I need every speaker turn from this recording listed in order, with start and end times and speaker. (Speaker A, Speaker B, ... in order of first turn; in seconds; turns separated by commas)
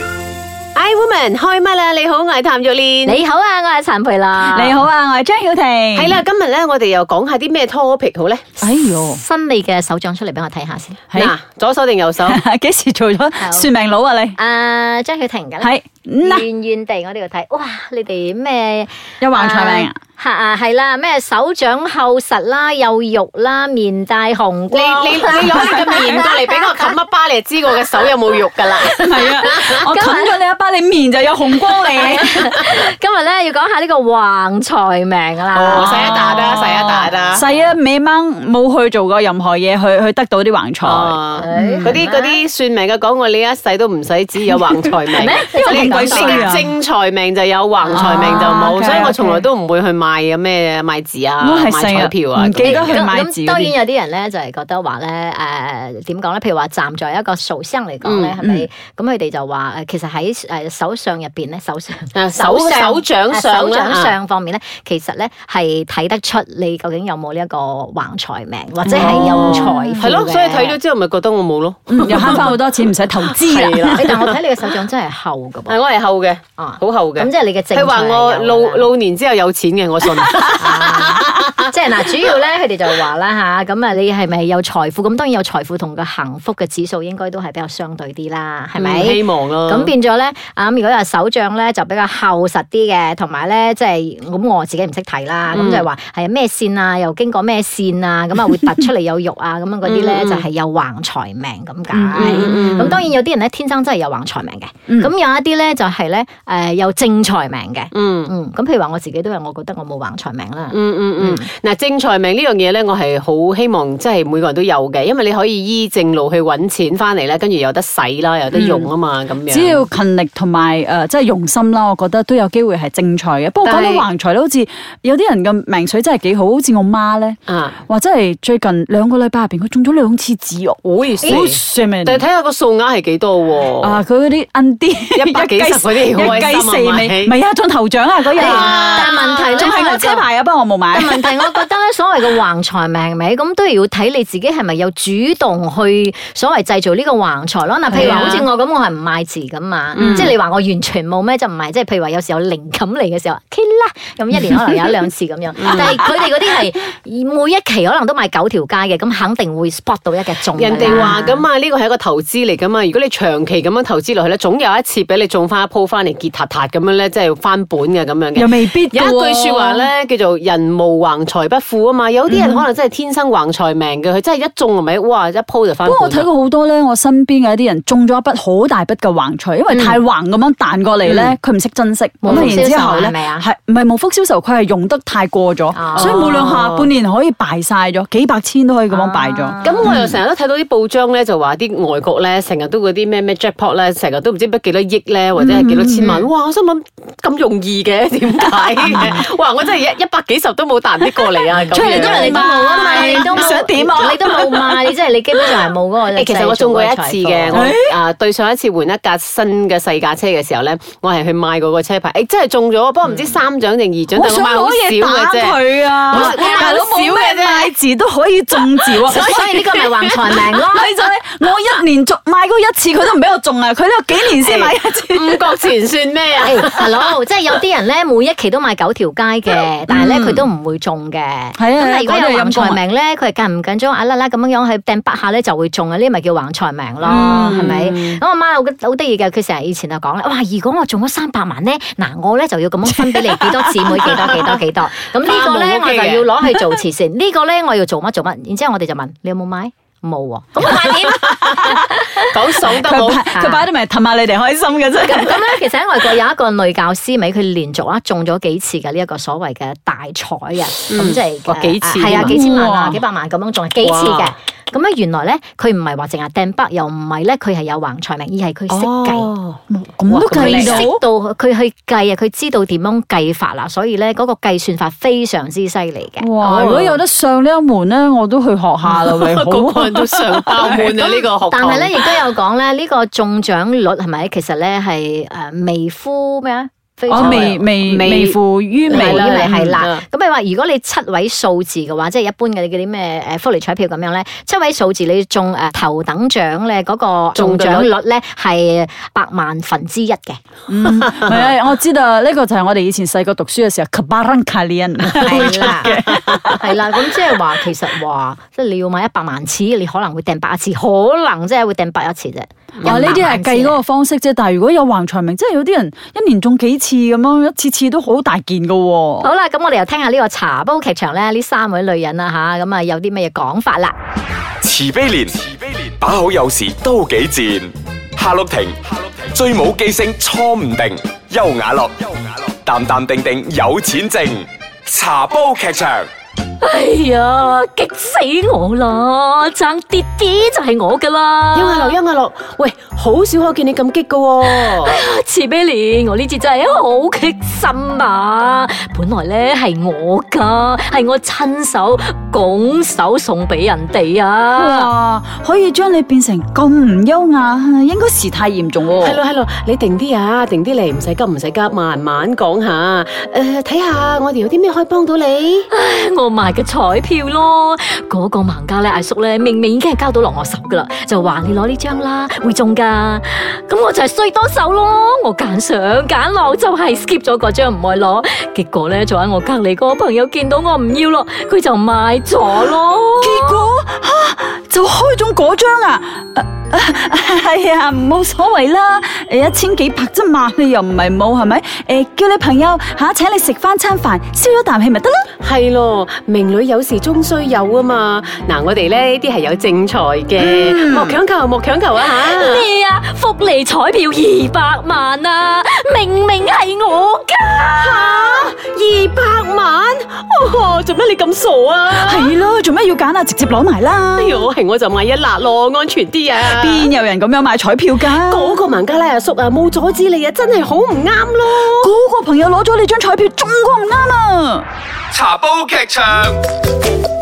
Speaker A: 0.8-3.2, Speaker B: 3.0-4.8, Speaker C: 4.4-6.2, Speaker A: 5.9-8.4, Speaker C: 8.6-9.2, Speaker B: 9.0-11.0, Speaker A: 11.1-12.4, Speaker C: 12.3-14.3, Speaker B: 13.4-13.7, Speaker B: 14.3-26.9, Speaker C: 15.6-16.4, Speaker C: 19.2-20.0, Speaker A: 24.7-29.7, Speaker C: 25.4-26.2, Speaker C: 28.9-32.6, Speaker B: 29.2-30.4, Speaker B: 31.9-37.7, Speaker A: 35.5-37.4, Speaker C: 35.7-41.9, Speaker A: 40.8-53.0, Speaker B: 41.4-42.4, Speaker B: 45.1-46.6, Speaker C: 45.3-46.7, Speaker B: 47.8-49.4, Speaker C: 47.9-49.2, Speaker C: 51.4-53.7, Speaker B: 52.6-70.8, Speaker A: 58.0-58.3, Speaker C: 58.4-58.7, Speaker A: 62.1-64.1, Speaker C: 68.8-70.1, Speaker A: 69.0-72.6, Speaker C: 71.9-74.3, Speaker A: 73.2-74.3, Speaker B: 73.9-75.8, Speaker A: 75.7-81.7, Speaker B: 76.6-78.9, Speaker B: 80.6-111.5, Speaker A: 88.8-89.9, Speaker A: 95.5-95.9, Speaker A: 99.8-100.4, Speaker C: 101.9-103.1, Speaker A: 102.2-103.0, Speaker A: 107.9-108.3, Speaker A: 110.7-119.8, Speaker C: 118.5-118.9, Speaker C: 119.5-132.2, Speaker A: 123.6-124.1, Speaker A: 127.5-127.8, Speaker A: 130.8-134.0, Speaker C: 133.8-141.5, Speaker A: 135.1-137.3, Speaker A: 138.3-139.8, Speaker B: 138.4-140.3, Speaker B: 140.9-161.4, Speaker A: 147.9-148.4, Speaker C: 147.9-148.3, Speaker A: 149.9-150.3, Speaker C: 149.9-150.3, Speaker A: 155.6-156.0, Speaker A: 160.6-176.3, Speaker C: 160.8-161.1, Speaker C: 168.3-169.9, Speaker C: 172.3-172.6, Speaker C: 175.8-190.0, Speaker B: 179.7-180.0, Speaker A: 181.0-181.3, Speaker B: 182.2-183.5, Speaker A: 182.3-182.7, Speaker B: 185.7-186.4, Speaker A: 185.9-186.9, Speaker B: 188.9-190.0, Speaker A: 189.6-203.6, Speaker C: 195.3-196.2, Speaker C: 201.6-204.9, Speaker B: 201.7-207.6, Speaker A: 206.1-217.7, Speaker C: 207.5-207.9, Speaker C: 214.1-225.5, Speaker B: 216.1-216.7, Speaker A: 218.6-220.5, Speaker B: 219.1-220.9, Speaker A: 224.4-227.1, Speaker B: 226.4-252.2, Speaker C: 229.9-230.4, Speaker C: 231.6-232.8, Speaker C: 237.0-237.8, Speaker A: 237.4-238.2, Speaker C: 242.9-244.4, Speaker A: 245.2-246.3, Speaker C: 250.6-251.7, Speaker A: 250.7-251.7, Speaker A: 252.3-253.3, Speaker C: 252.6-255.5, Speaker B: 253.3-253.6, Speaker B: 255.0-269.3, Speaker A: 260.9-262.4, Speaker C: 262.0-263.0, Speaker A: 263.8-264.3, Speaker A: 268.7-270.9, Speaker C: 269.7-271.0, Speaker B: 270.3-276.3, Speaker C: 276.2-281.0, Speaker A: 276.4-277.0, Speaker A: 278.9-282.1, Speaker B: 280.9-287.7, Speaker C: 287.1-289.7, Speaker A: 287.1-288.4, Speaker B: 288.9-300.4, Speaker A: 288.9-290.0, Speaker A: 297.3-297.9, Speaker C: 300.7-306.7, Speaker A: 301.0-301.3, Speaker B: 305.2-306.0, Speaker B: 306.6-313.8, Speaker C: 312.8-319.3, Speaker B: 319.2-323.9, Speaker D: 324.6-336.1, Speaker B: 336.6-342.0, Speaker A: 341.5-345.0, Speaker B: 344.4-354.9, Speaker C: 354.5-359.2, Speaker A: 358.9-365.7, Speaker B: 365.7-383.6, Speaker C: 383.2-395.3, Speaker A: 395.4-402.6, Speaker C: 400.4-401.2, Speaker B: 402.1-408.5, Speaker A: 407.7-412.4, Speaker C: 411.9-414.5, Speaker A: 414.1-416.9, Speaker C: 416.4-418.6, Speaker A: 418.2-421.9, Speaker C: 421.8-424.6, Speaker D: 425.1-426.4